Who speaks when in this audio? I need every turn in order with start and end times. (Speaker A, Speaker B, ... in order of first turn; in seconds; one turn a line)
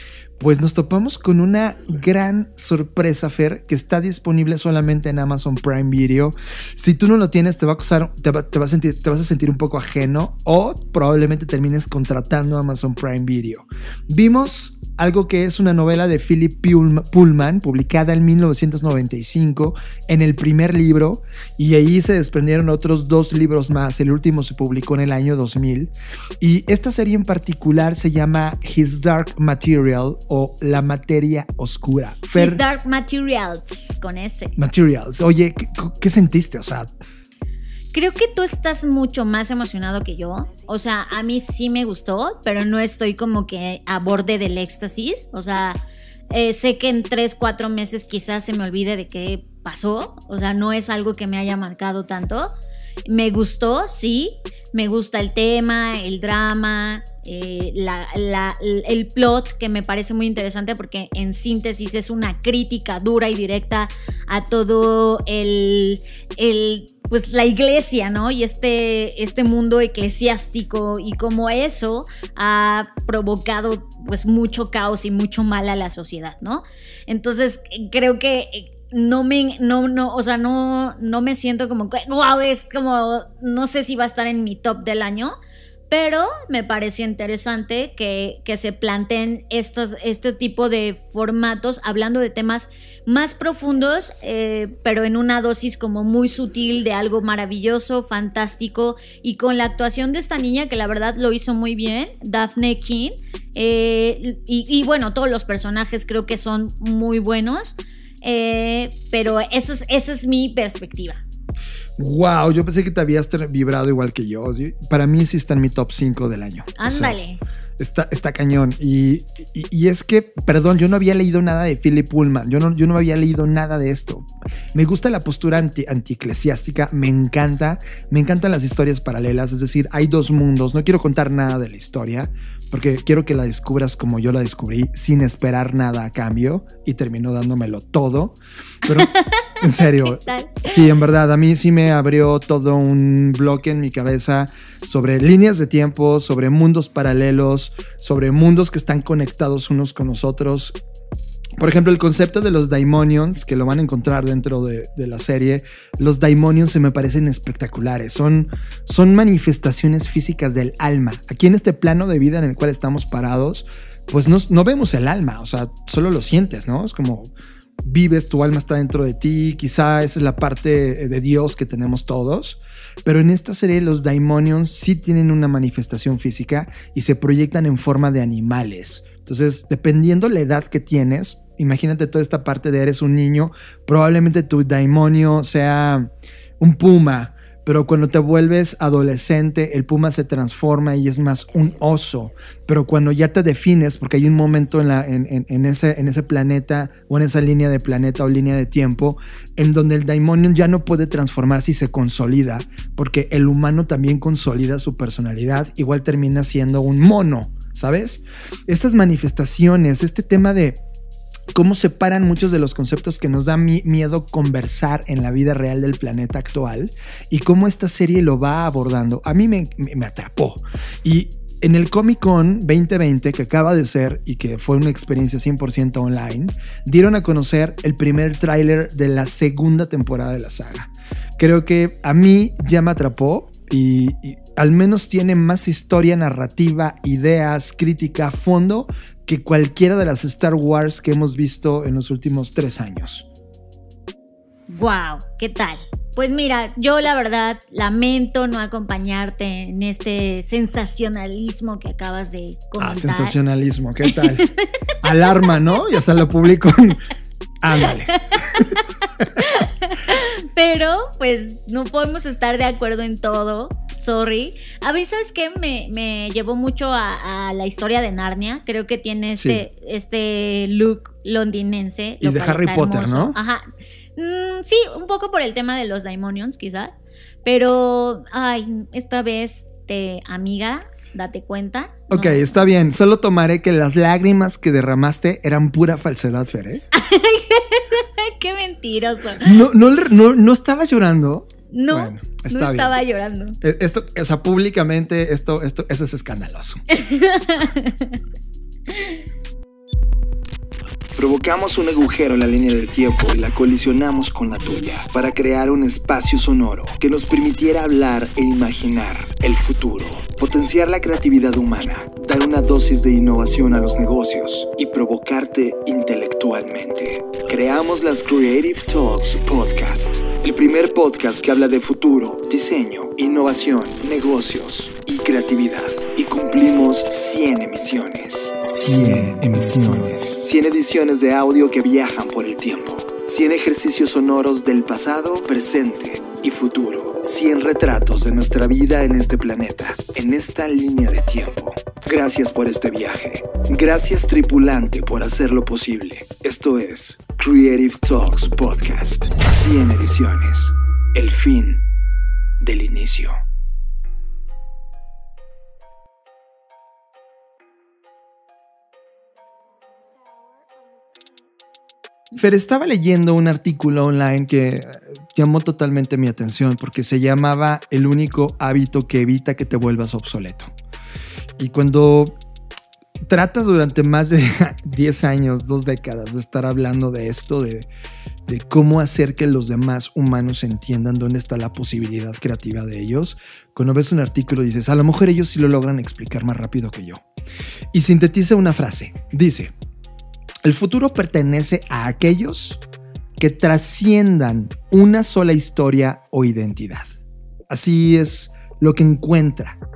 Speaker A: 0.4-32.6
Speaker B: 32.3-34.5
Speaker A: 34.6-36.9
Speaker B: 37.9-52.5
Speaker B: 53.1-85.4
Speaker B: 85.9-111.2
Speaker A: 112.0-117.2
Speaker B: 116.8-117.4
Speaker A: 117.8-150.8
Speaker B: 138.9-140.9
Speaker A: 151.6-167.3
Speaker A: 167.8-210.8
Speaker A: 211.5-243.3
Speaker B: 244.7-253.4
Speaker A: 252.8-257.0
Speaker B: 254.1-255.4
Speaker A: 257.6-258.7
Speaker B: 258.1-258.6
Speaker B: 259.4-273.6
Speaker A: 269.4-269.6
Speaker A: 272.2-273.4
Speaker B: 274.2-276.9
Speaker B: 277.4-282.5
Speaker A: 282.1-286.8
Speaker B: 286.9-289.6
Speaker A: 289.4-292.9
Speaker B: 291.7-293.6
Speaker A: 293.6-296.8
Speaker B: 296.9-298.2
Speaker B: 298.9-299.2
Speaker A: 301.1-351.8
Speaker A: 352.6-353.4
Speaker A: 362.3-370.7
Speaker A: 371.6-372.4
Speaker A: 373.3-377.9
Speaker A: 378.5-387.2
Speaker A: 387.9-389.7
Speaker A: 390.6-392.8
Speaker A: 393.4-397.1
Speaker A: 397.7-399.8